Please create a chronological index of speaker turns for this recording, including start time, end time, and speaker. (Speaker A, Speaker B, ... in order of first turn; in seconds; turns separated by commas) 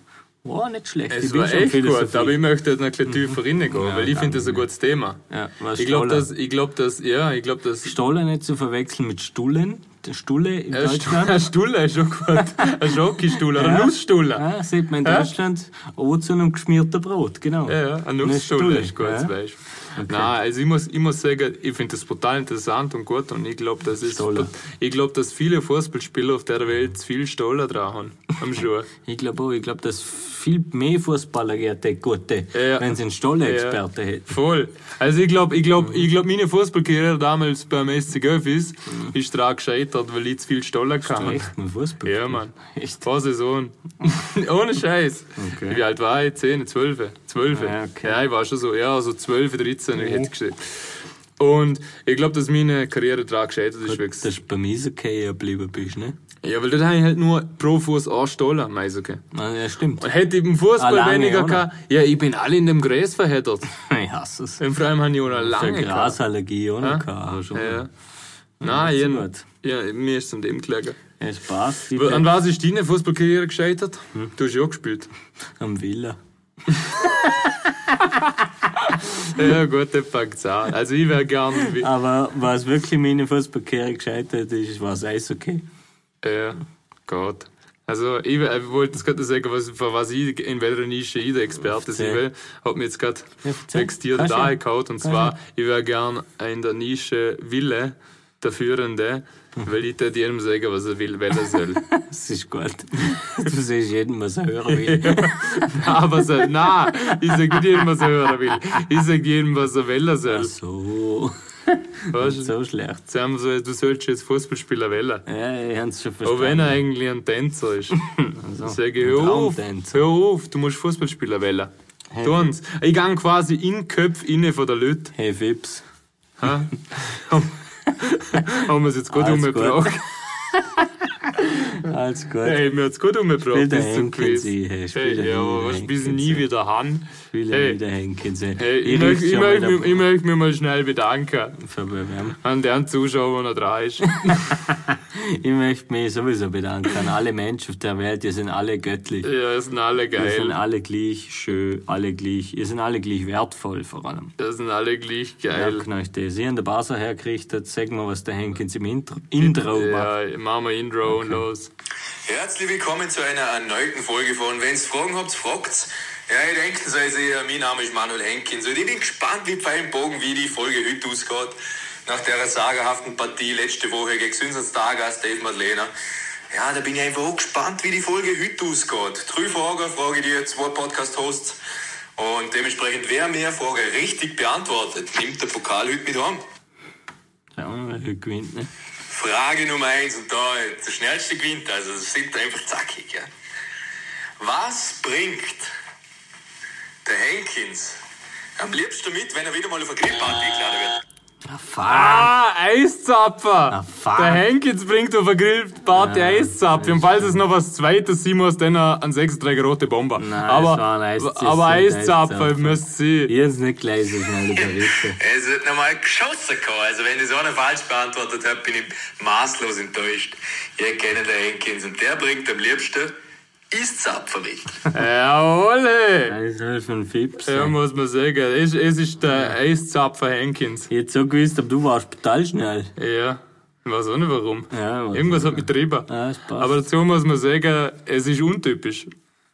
Speaker A: 0.4-2.4, Speaker B: 1.1-5.2, Speaker A: 3.1-4.6, Speaker A: 5.3-6.3, Speaker B: 5.8-8.0, Speaker A: 7.8-11.4, Speaker B: 10.7-14.4, Speaker A: 13.3-19.3, Speaker B: 17.7-28.9, Speaker A: 19.9-20.3, Speaker A: 24.0-24.5, Speaker A: 29.0-34.4, Speaker B: 32.5-41.5, Speaker A: 41.0-43.0, Speaker B: 42.0-54.3, Speaker A: 45.4-45.8, Speaker A: 47.5-48.2, Speaker A: 50.0-50.3, Speaker A: 53.9-56.1, Speaker B: 56.4-59.2, Speaker A: 59.3-60.1, Speaker B: 60.0-63.7, Speaker A: 60.8-61.7, Speaker A: 63.7-64.6, Speaker B: 64.6-66.2, Speaker A: 65.3-67.8, Speaker B: 66.8-67.9, Speaker A: 68.6-69.4, Speaker B: 68.6-71.0, Speaker A: 71.2-72.3, Speaker B: 71.9-75.1, Speaker A: 75.6-76.2, Speaker B: 76.8-77.0, Speaker B: 78.8-81.9, Speaker A: 81.6-85.6, Speaker B: 86.2-101.8, Speaker A: 91.8-92.2, Speaker A: 93.4-95.3, Speaker A: 101.9-106.0, Speaker B: 104.7-110.5, Speaker A: 107.5-107.9, Speaker A: 110.3-113.0, Speaker B: 112.1-112.5, Speaker B: 113.1-115.2, Speaker A: 115.2-116.8, Speaker B: 116.2-118.0, Speaker A: 118.0-120.1, Speaker B: 118.6-121.7, Speaker A: 122.1-122.5, Speaker B: 122.2-125.1, Speaker A: 125.1-125.8, Speaker B: 126.4-130.0, Speaker A: 129.1-132.6, Speaker B: 131.5-131.7, Speaker B: 132.4-137.8, Speaker A: 133.4-136.4, Speaker A: 137.3-140.1, Speaker B: 138.6-141.6, Speaker A: 141.6-142.4, Speaker B: 142.4-144.4, Speaker A: 144.2-149.3, Speaker B: 149.2-150.6, Speaker A: 150.2-154.3, Speaker B: 154.4-155.8, Speaker A: 155.5-160.1, Speaker B: 159.4-161.7, Speaker A: 161.1-161.4, Speaker C: 162.3-175.9, Speaker C: 176.5-181.6, Speaker C: 182.2-186.4, Speaker A: 187.5-188.7, Speaker C: 189.1-193.3, Speaker C: 194.4-195.7, Speaker C: 197.0-198.0, Speaker C: 198.6-201.0, Speaker A: 201.4-202.3, Speaker B: 201.8-213.3, Speaker A: 203.7-204.4, Speaker A: 205.9-207.4, Speaker A: 210.2-215.2, Speaker C: 214.7-223.2, Speaker C: 223.7-224.8, Speaker B: 224.9-226.3, Speaker A: 226.2-227.8, Speaker B: 227.4-230.9, Speaker A: 230.9-232.9, Speaker B: 233.0-239.1, Speaker A: 234.7-236.8